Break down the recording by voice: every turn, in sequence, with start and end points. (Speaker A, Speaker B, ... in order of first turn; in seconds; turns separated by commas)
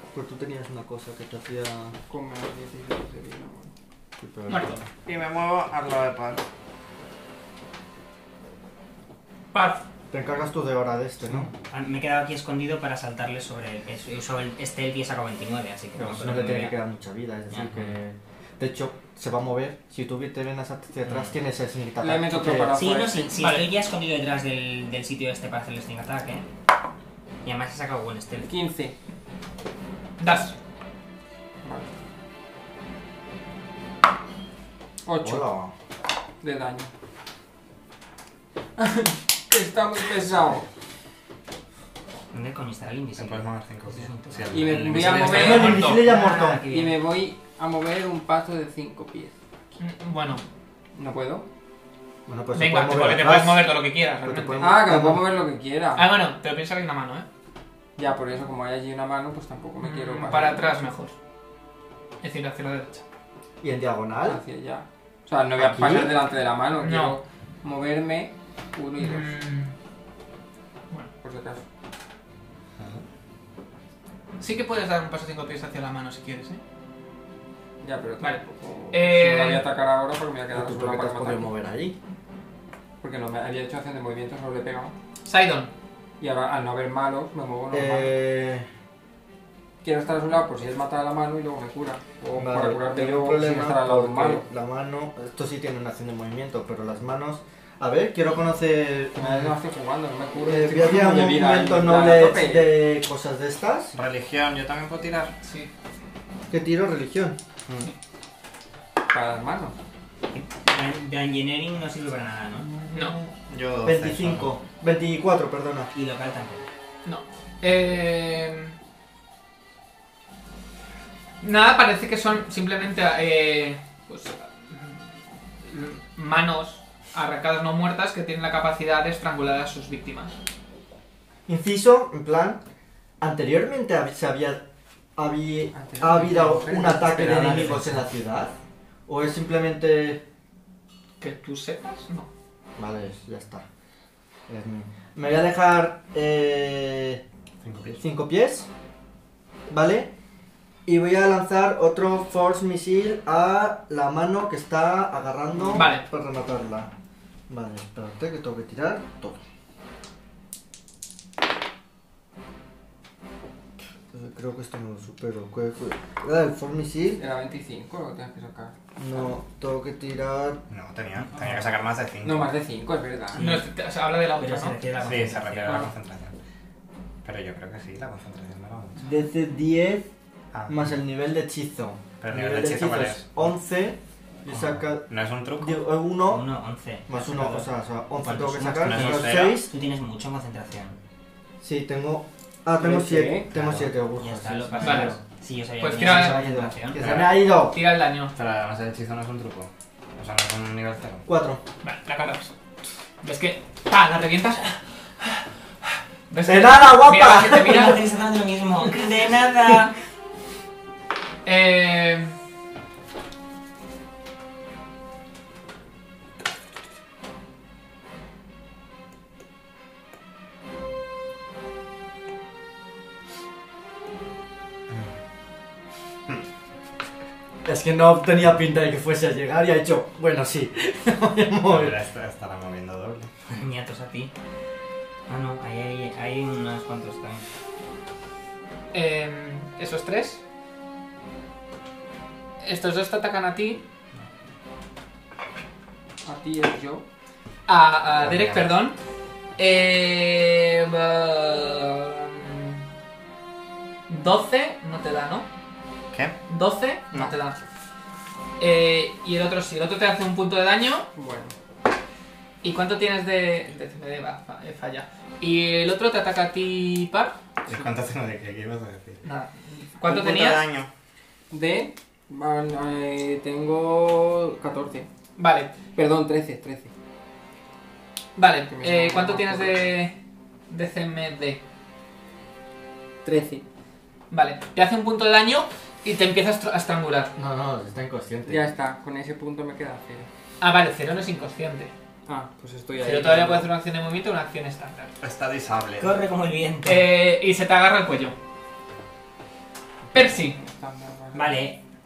Speaker A: 0.1-2.0, Speaker B: 2.1-3.7, Speaker A: 4.2-4.8, Speaker C: 4.5-4.8, Speaker D: 5.0-6.4, Speaker C: 9.5-9.8, Speaker A: 10.1-11.5, Speaker E: 11.3-16.8, Speaker A: 16.0-22.8, Speaker B: 22.0-23.4, Speaker E: 22.7-26.5, Speaker C: 23.4-23.7, Speaker E: 27.4-28.5, Speaker B: 28.4-29.0, Speaker C: 30.2-30.6, Speaker B: 31.6-31.9, Speaker B: 35.0-35.5, Speaker A: 35.2-35.7, Speaker B: 36.4-36.9, Speaker B: 38.9-40.7, Speaker E: 42.3-44.7, Speaker D: 43.2-45.8, Speaker B: 44.5-45.8, Speaker C: 45.0-46.0, Speaker A: 45.2-46.6, Speaker E: 45.6-47.0, Speaker B: 46.7-49.3, Speaker C: 49.8-50.4, Speaker B: 51.0-51.4, Speaker A: 52.3-53.7, Speaker C: 52.5-54.8, Speaker A: 54.2-55.3, Speaker B: 54.6-56.1, Speaker C: 56.0-57.3, Speaker B: 58.0-60.7, Speaker C: 59.8-61.1, Speaker C: 62.2-63.0, Speaker A: 63.6-64.4, Speaker B: 64.2-69.4, Speaker A: 65.6-66.2, Speaker C: 66.8-67.2, Speaker C: 69.0-69.8, Speaker B: 71.2-71.6, Speaker D: 72.8-73.0, Speaker C: 74.4-76.6, Speaker B: 77.8-81.5, Speaker C: 78.2-79.7, Speaker A: 80.5-82.0, Speaker B: 83.0-84.9, Speaker C: 85.2-85.7, Speaker B: 86.2-88.2, Speaker A: 87.7-88.7, Speaker B: 89.8-94.5, Speaker A: 92.4-99.6, Speaker B: 99.2-102.8, Speaker A: 100.4-104.0, Speaker D: 103.9-105.3, Speaker C: 105.4-105.7, Speaker A: 106.5-107.4, Speaker B: 109.1-109.8, Speaker E: 110.3-112.7, Speaker A: 112.7-113.3, Speaker C: 112.9-113.2, Speaker D: 113.5-114.5, Speaker A: 113.8-115.9, Speaker E: 115.9-116.6, Speaker C: 117.0-118.8, Speaker C: 121.4-125.0, Speaker C: 125.6-130.3, Speaker A: 131.5-132.6, Speaker A: 133.2-134.7, Speaker A: 135.2-138.6, Speaker B: 135.7-137.9, Speaker A: 139.1-140.2, Speaker C: 141.2-142.3, Speaker A: 142.8-143.7, Speaker A: 144.5-147.2, Speaker D: 147.6-148.0, Speaker A: 148.0-148.7, Speaker A: 149.7-150.1, Speaker A: 150.9-156.9, Speaker C: 155.7-156.1, Speaker A: 157.5-159.4, Speaker A: 164.1-167.2, Speaker B: 167.2-168.8, Speaker A: 169.0-170.6, Speaker D: 170.7-172.6, Speaker E: 171.2-171.4, Speaker B: 172.2-173.4, Speaker E: 173.3-173.7, Speaker C: 173.4-174.8, Speaker E: 174.4-175.9, Speaker D: 175.0-176.3, Speaker D: 177.2-179.1, Speaker A: 179.0-180.1, Speaker D: 180.5-180.9, Speaker A: 180.7-186.4, Speaker D: 182.2-183.3, Speaker D: 185.1-185.8, Speaker E: 186.3-191.0, Speaker A: 187.1-189.7, Speaker D: 188.8-189.6, Speaker A: 191.6-195.2, Speaker B: 192.8-193.5, Speaker D: 193.5-193.9, Speaker E: 194.2-197.0, Speaker C: 194.8-195.2, Speaker C: 195.8-196.5, Speaker A: 196.0-197.8, Speaker D: 197.0-197.4, Speaker C: 197.6-198.3, Speaker D: 198.3-201.2, Speaker A: 201.3-201.6, Speaker C: 201.8-202.5, Speaker C: 203.2-205.4, Speaker C: 206.3-208.0, Speaker A: 206.4-208.0, Speaker E: 207.5-209.9, Speaker C: 211.4-212.3, Speaker D: 224.9-225.2, Speaker A: 227.7-232.0, Speaker D: 231.7-233.3, Speaker E: 233.5-234.3, Speaker E: 235.3-237.4, Speaker C: 238.9-240.4, Speaker C: 242.6-243.8, Speaker B: 246.2-247.1, Speaker C: 247.7-249.0, Speaker D: 248.2-248.7, Speaker C: 249.6-252.8, Speaker C: 254.1-255.5, Speaker C: 256.5-257.6, Speaker C: 258.6-261.1, Speaker B: 261.1-261.5, Speaker C: 262.6-267.4, Speaker D: 267.6-269.2, Speaker C: 269.2-270.6, Speaker D: 270.0-270.9, Speaker B: 271.5-275.1, Speaker C: 275.4-275.8, Speaker B: 275.9-276.9, Speaker C: 278.4-280.2, Speaker B: 278.7-279.8, Speaker C: 280.7-281.6, Speaker B: 283.2-283.6, Speaker C: 284.3-287.3, Speaker A: 287.4-288.7, Speaker B: 288.5-290.3, Speaker C: 290.6-291.9, Speaker B: 292.3-293.7, Speaker C: 293.0-295.1, Speaker D: 295.2-296.2, Speaker E: 296.0-297.1, Speaker C: 296.9-298.4, Speaker B: 300.1-301.5, Speaker C: 300.1-300.6, Speaker E: 301.3-301.8